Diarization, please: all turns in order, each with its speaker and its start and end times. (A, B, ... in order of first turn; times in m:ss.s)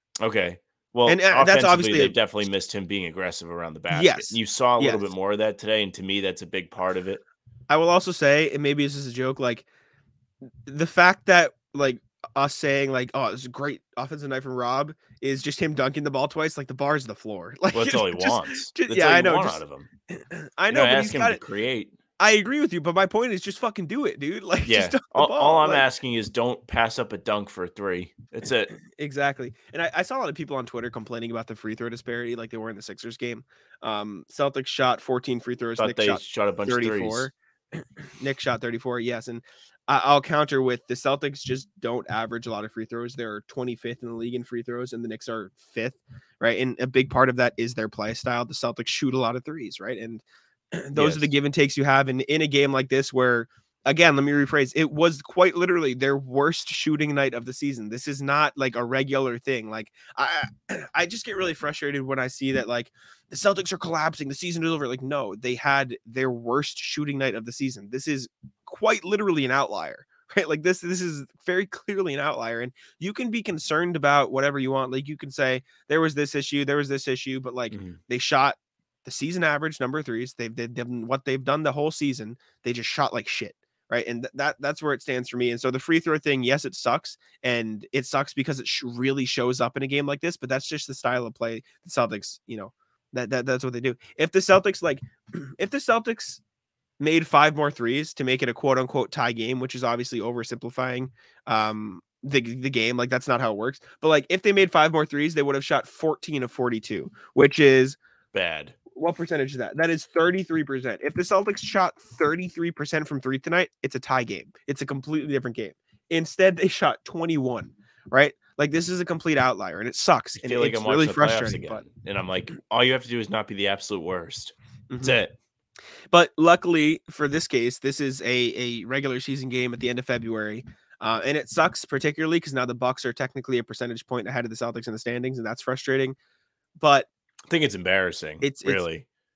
0:00.2-0:07.2 A
0:01.1-0:02.2 B
0:03.9-0:05.1 B
0:07.7-0:09.6 B
0:10.6-0:21.4 B
0:17.7-0:19.9 A
0:20.7-0:21.9 A
0:22.2-0:25.9 B
0:24.6-0:28.7 A
0:28.9-1:36.4 B
0:35.8-0:37.3 A
0:50.9-0:51.3 A
1:17.7-1:18.0 A
1:37.0-1:48.0 B
1:48.3-1:48.7 A
1:48.9-2:01.8 B
2:00.3-2:05.3 A
2:04.9-2:05.2 B
2:06.1-2:16.2 B
2:16.8-2:17.1 B
2:17.5-2:19.0 A
2:18.4-2:18.8 B